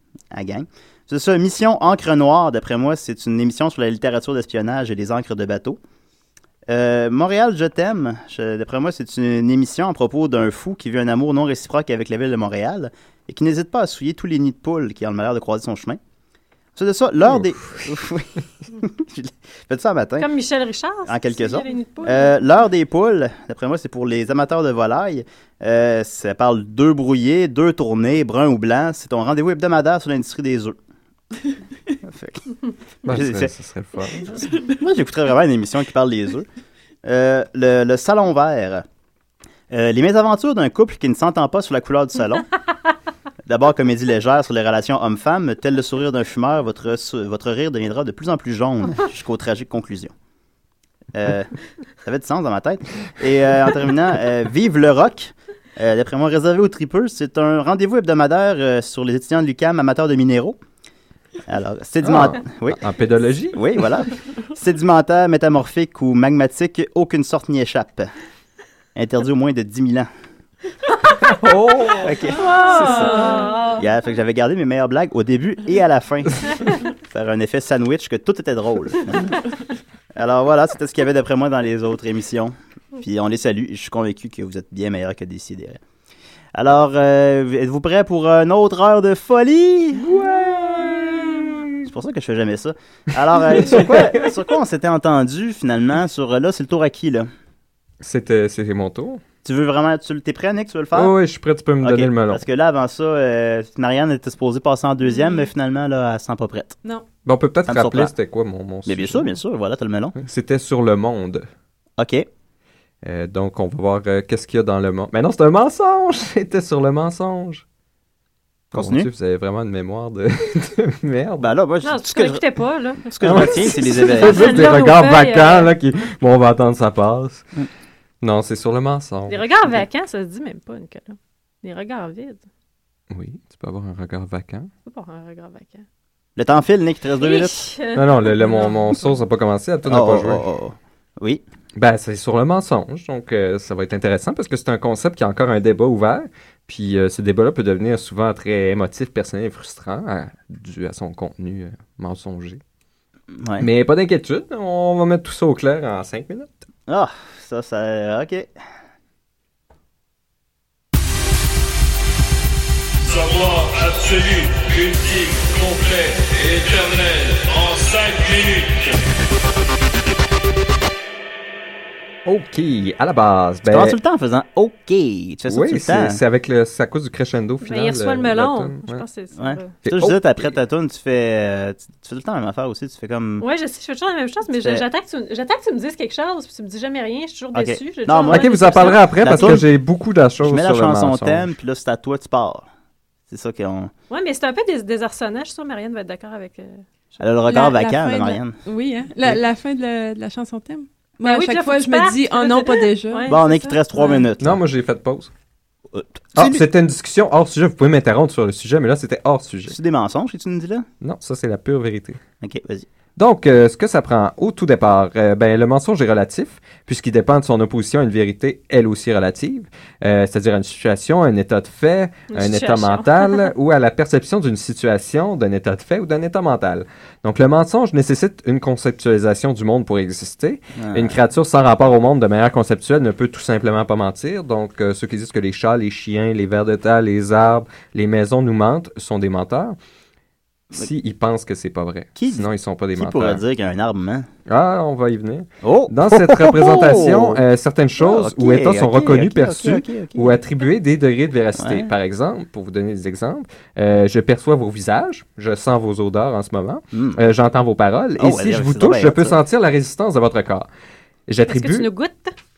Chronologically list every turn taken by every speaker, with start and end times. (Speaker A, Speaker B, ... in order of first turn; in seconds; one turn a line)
Speaker A: 0.3-5.8
Speaker A: 6.7-16.0
Speaker A: 16.8-20.3
Speaker B: 17.2-17.9
Speaker C: 20.2-22.4
Speaker A: 21.1-30.8
Speaker A: 32.0-32.5
Speaker B: 33.0-34.6
Speaker A: 33.1-33.5
Speaker A: 34.7-36.5
Speaker A: 37.0-38.8
Speaker A: 39.7-42.5
Speaker A: 43.5-50.1
Speaker A: 51.1-51.5
Speaker A: 52.0-60.6
Speaker A: 61.5-62.8
Speaker B: 62.0-63.9
Speaker A: 63.5-68.1
Speaker A: 69.0-70.1
Speaker B: 71.2-73.3
Speaker A: 72.0-73.1
Speaker C: 72.4-73.8
Speaker D: 72.8-73.6
Speaker A: 73.8-79.3
Speaker A: 80.2-85.8
Speaker A: 86.5-90.0
Speaker B: 90.0-91.8
Speaker A: 91.8-97.3
Speaker B: 93.5-94.3
Speaker B: 98.0-99.2
Speaker A: 99.4-101.1
Speaker B: 100.9-102.5
Speaker A: 101.8-106.8
Speaker B: 107.2-109.3
Speaker A: 107.7-108.1
Speaker A: 108.9-110.2
Speaker B: 110.2-111.5
Speaker A: 112.0-112.3
Speaker B: 113.0-117.6
Speaker B: 118.7-121.5
Speaker A: 118.7-119.1
Speaker A: 121.4-122.4
Speaker C: 121.8-125.7
Speaker A: 123.1-124.5
Speaker B: 123.2-127.5
Speaker B: 128.2-129.5
Speaker C: 129.3-132.4
Speaker B: 133.1-134.7
Speaker C: 134.9-135.8
Speaker A: 136.4-137.7
Speaker C: 137.2-139.2
Speaker B: 137.9-140.4
Speaker A: 139.9-141.4
Speaker B: 141.8-152.6
Speaker A: 153.3-153.7
Speaker B: 153.6-156.5
Speaker A: 156.9-158.5
Speaker E: 163.0-169.0
Speaker B: 172.2-174.0
Speaker A: 173.7-176.2
Speaker B: 175.5-179.1
Speaker C: 177.6-179.7
Speaker A: 179.4-183.4
Speaker B: 179.8-180.5
Speaker C: 183.4-189.6
Speaker A: 187.5-189.6
Speaker B: 188.3-191.5
Speaker A: 190.4-192.7
Speaker A: 193.3-193.9
Speaker C: 194.1-197.2
Speaker A: 197.2-198.6
Speaker D: 197.5-204.2
Speaker C: 201.2-204.1
Speaker A: 203.3-204.6
Speaker B: 204.4-205.3
Speaker A: 205.9-206.7
Speaker B: 206.4-209.8
Speaker A: 209.7-210.9
Speaker B: 211.0-212.2
Speaker A: 212.4-212.9
Speaker B: 213.2-239.8
Speaker C: 222.3-223.5
Speaker A: 230.8-231.2
Speaker B: 240.7-243.4
Speaker A: 242.2-244.3
Speaker B: 244.5-260.7
Speaker A: 245.6-247.4
Speaker A: 248.0-250.4
Speaker A: 251.6-251.9
Speaker A: 256.9-257.2
Speaker A: 258.2-259.4
Speaker B: 261.3-261.9
Speaker C: 261.5-262.3